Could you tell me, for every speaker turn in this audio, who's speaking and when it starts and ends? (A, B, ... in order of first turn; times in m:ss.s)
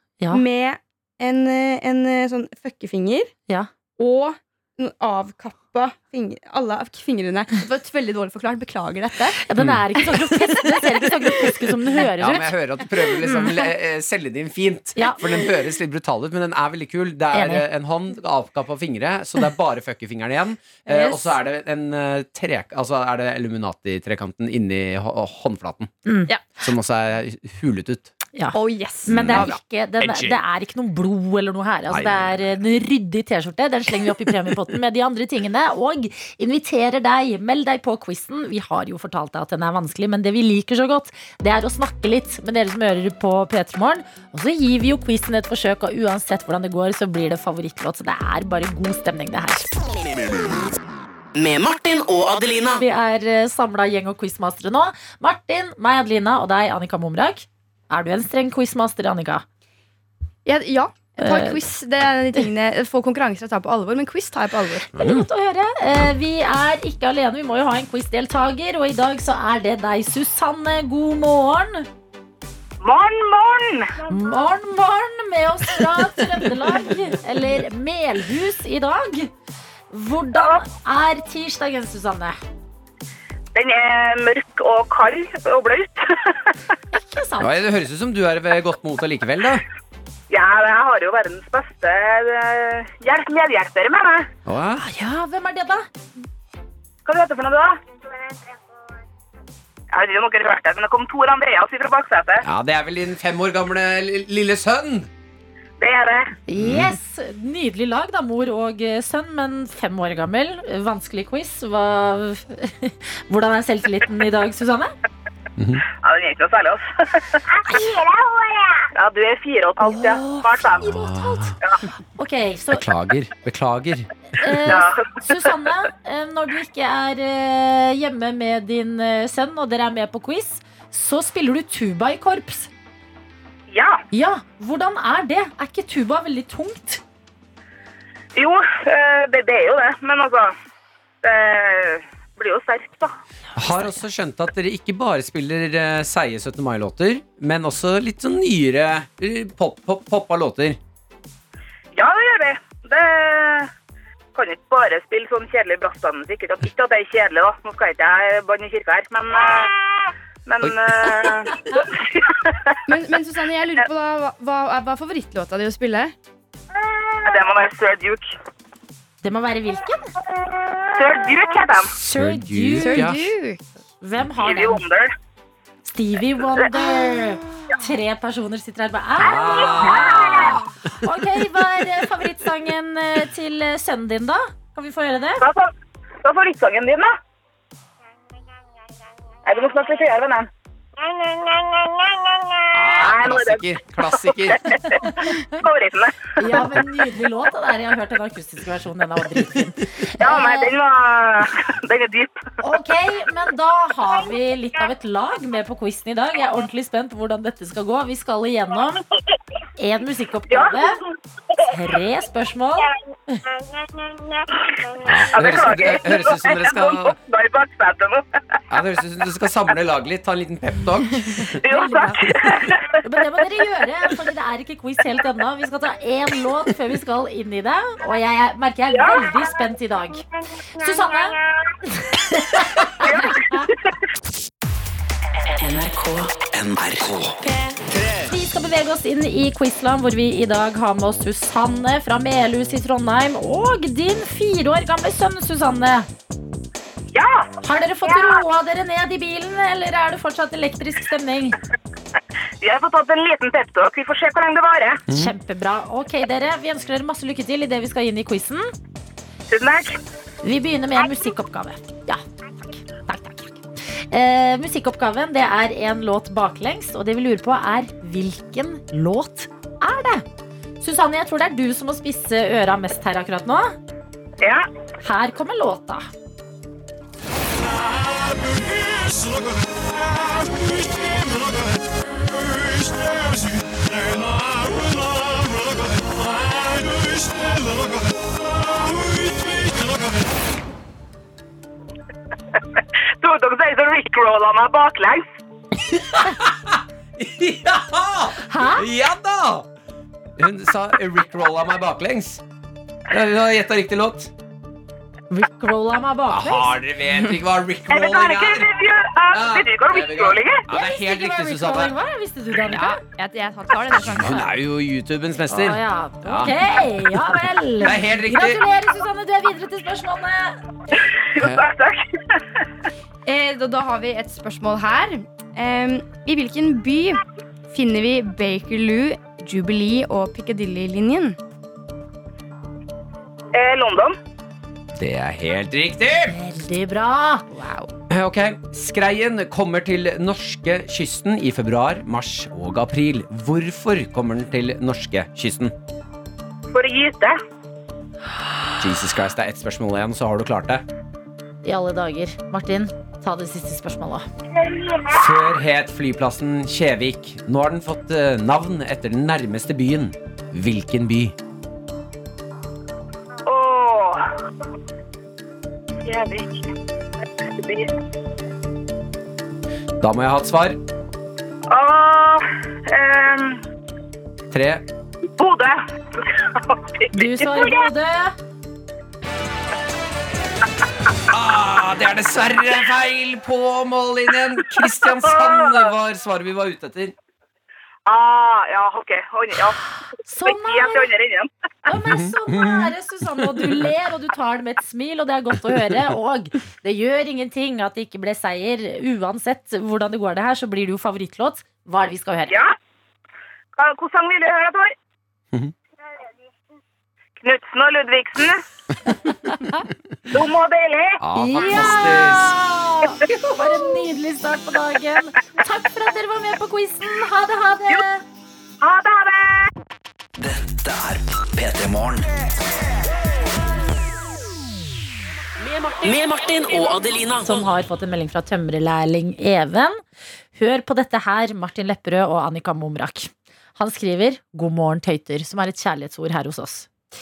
0:00.3-0:03.3 A
0:04.0-0:09.4 A
0:09.4-0:12.5 B
0:09.6-0:09.8 C
0:12.2-0:25.9 C
0:13.3-0:13.5 A
0:15.0-0:15.4 B
0:17.3-0:17.6 B
0:20.9-0:21.2 A
0:26.1-0:26.3 B
0:26.6-0:28.1 C
0:28.4-0:49.7 B
0:28.5-0:29.6 A
0:29.1-0:30.4 C
0:31.9-0:32.6 C
0:51.4-0:52.8 D
0:52.7-0:59.4 B
1:00.5-1:04.9 A
1:01.2-1:01.6 B
1:05.0-1:05.3 C
1:05.0-1:11.9 B
1:12.8-1:14.0 E
1:14.1-1:19.3 B
1:19.9-1:22.4 B
1:20.4-1:20.6 E
1:23.6-1:26.6 E
1:26.9-1:27.5 B
1:27.4-1:29.6 C
1:30.3-1:34.3 E
1:34.5-1:34.9 C
1:34.8-1:35.9 B
1:37.0-1:37.8 E
1:39.9-1:42.4 E
1:42.4-1:45.1 C
1:45.8-1:46.3 E
1:46.5-1:54.9 B
1:46.6-1:47.0 C
1:55.6-1:55.8 C
1:56.0-1:57.4 E
1:57.6-1:58.1 B
1:58.8-2:00.9 E
1:59.8-2:01.6 B
2:00.8-2:01.6 C
2:02.2-2:02.8 B
2:02.7-2:04.1 C
2:04.4-2:12.7 B
2:04.6-2:05.5 E
2:13.7-2:14.0 E
2:14.1-2:17.0 B
2:18.4-2:20.5 E
2:21.2-2:23.1 E
2:23.6-2:30.8 C
2:23.6-2:23.9 B
2:31.9-2:33.7 E
2:34.4-2:42.8 E
2:42.9-2:46.1 A
2:47.2-2:48.4 E
2:49.2-2:50.1 B
2:50.9-2:51.9 E
2:52.0-2:53.2 B
2:52.0-2:53.2 C
2:52.8-2:53.6 A
2:54.0-2:54.8 B
2:54.4-2:55.1 E
2:55.9-3:05.4 B
2:59.2-3:00.7 C
3:05.4-3:07.2 E
3:09.4-3:10.5 E
3:11.1-3:13.6 E
3:12.7-3:14.6 C
3:14.2-3:16.8 E
3:14.9-3:15.5 B
3:16.4-3:20.7 B
3:20.2-3:22.4 E
3:22.6-3:29.0 B
3:29.8-3:31.0 B
3:30.5-3:31.2 E
3:31.6-3:33.4 B
3:34.6-3:38.2 E
3:35.0-3:37.2 C
3:38.7-3:41.6 C
3:41.6-3:43.2 E
3:41.7-3:50.2 B
3:48.9-3:49.3 E
3:50.8-3:53.7 B
3:53.0-3:53.9 E
3:55.8-3:57.6 F
3:58.3-4:06.1 B
4:07.1-4:07.5 E
4:07.6-4:11.6 B
4:08.0-4:08.4 E
4:12.6-4:15.0 E
4:15.1-4:15.3 C
4:15.1-4:18.7 B
4:19.5-4:20.0 E
4:20.4-4:30.2 B
4:30.8-4:33.8 B
4:34.4-4:34.7 E
4:35.0-4:36.1 B
4:53.2-4:55.3 E
4:55.8-4:59.7 C
4:58.5-4:58.9 B
5:00.4-5:02.4 C
5:03.1-5:04.3 C
5:05.3-5:06.7 B
5:06.3-5:08.7 C
5:07.9-5:10.6 E
5:09.3-5:12.0 C
5:10.7-5:13.0 B
5:12.7-5:14.5 A
5:14.0-5:16.6 C
5:15.5-5:20.6 B
5:17.1-5:18.6 C
5:21.3-5:22.4 E
5:21.4-5:21.6 C
5:23.3-5:31.4 A
5:33.5-5:34.2 E
5:34.9-5:36.4 C
5:36.3-5:37.4 B
5:37.5-5:37.9 A
5:38.1-5:45.7 C
5:46.7-5:47.4 E
5:48.8-5:50.8 C
5:51.6-5:54.3 B
5:54.6-5:55.2 E
5:55.1-6:01.4 C
6:03.5-6:04.3 E
6:06.0-6:06.7 E
6:07.4-6:07.9 E
6:10.0-6:10.8 C
6:11.7-6:13.6 E
6:14.5-6:14.8 C
6:15.4-6:17.8 E
6:17.1-6:18.4 B
6:21.3-6:27.1 C
6:24.8-6:25.9 E
6:28.1-6:29.8 E
6:30.2-6:31.1 B
6:30.5-6:31.5 E
6:31.9-6:42.6 B
6:31.9-6:32.9 C
6:33.6-6:33.9 C
6:42.5-6:42.7 E
6:43.8-6:45.0 E
6:47.4-6:48.6 E
6:50.3-6:51.2 E
6:51.2-6:52.6 C
6:51.4-6:58.2 B
6:58.8-6:59.7 E
7:00.4-7:02.4 F
7:05.8-7:07.5 D
7:07.4-7:10.0 B
7:10.6-7:16.9 B